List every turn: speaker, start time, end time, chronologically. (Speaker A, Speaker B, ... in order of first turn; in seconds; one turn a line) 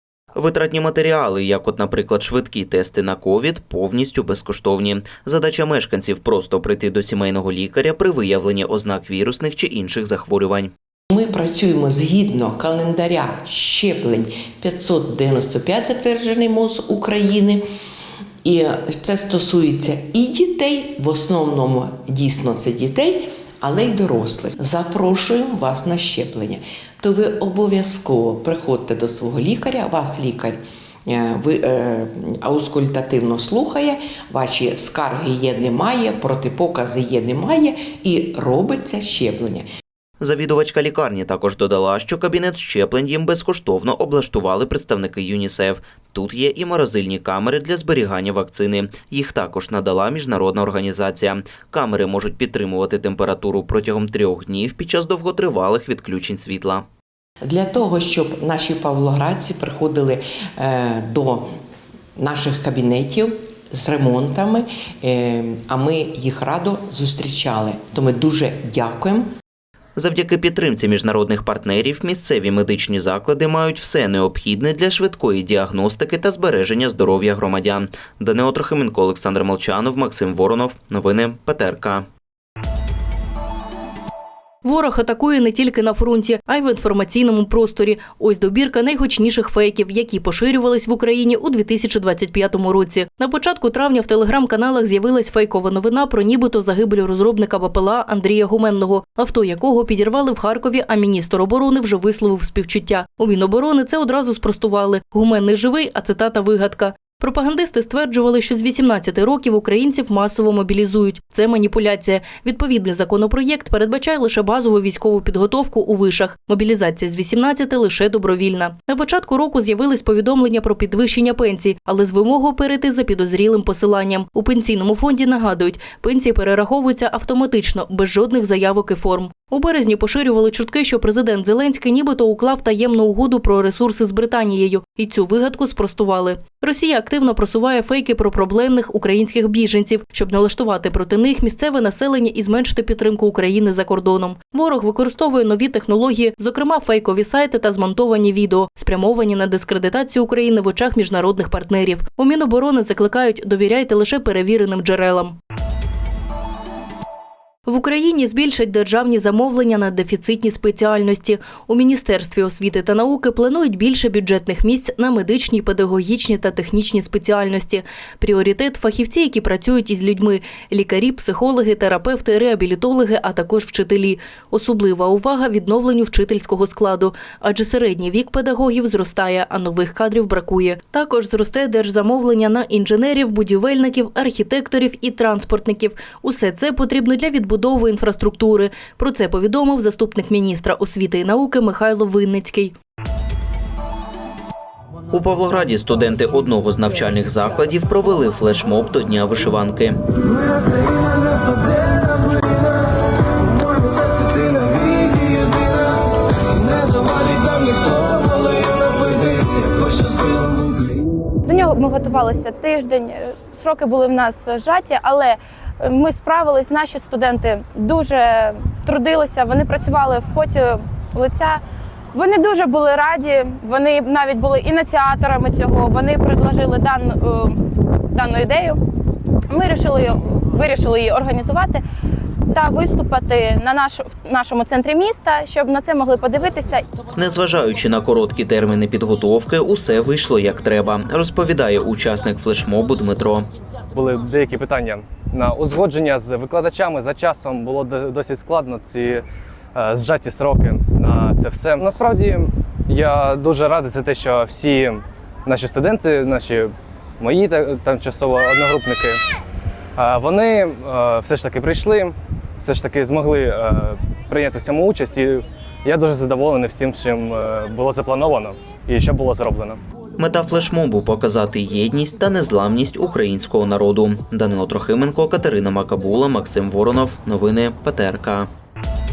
Speaker A: 0.4-10.7
Speaker B: 11.1-17.6
Speaker B: 18.4-39.6
Speaker A: 40.2-56.9
Speaker B: 57.4-61.5
Speaker B: 62.2-69.3
Speaker A: 70.0-82.0
Speaker C: 84.6-155.4
Speaker C: 157.7-192.8
Speaker A: 195.1-200.0
Speaker D: 211.4-221.6
Speaker D: 222.1-228.8
Speaker D: 229.5-231.8
Speaker D: 232.5-236.8
Speaker A: 237.2-243.4
Speaker E: 243.9-249.2
Speaker E: 249.8-259.2
Speaker E: 260.0-269.8
Speaker A: 270.2-278.5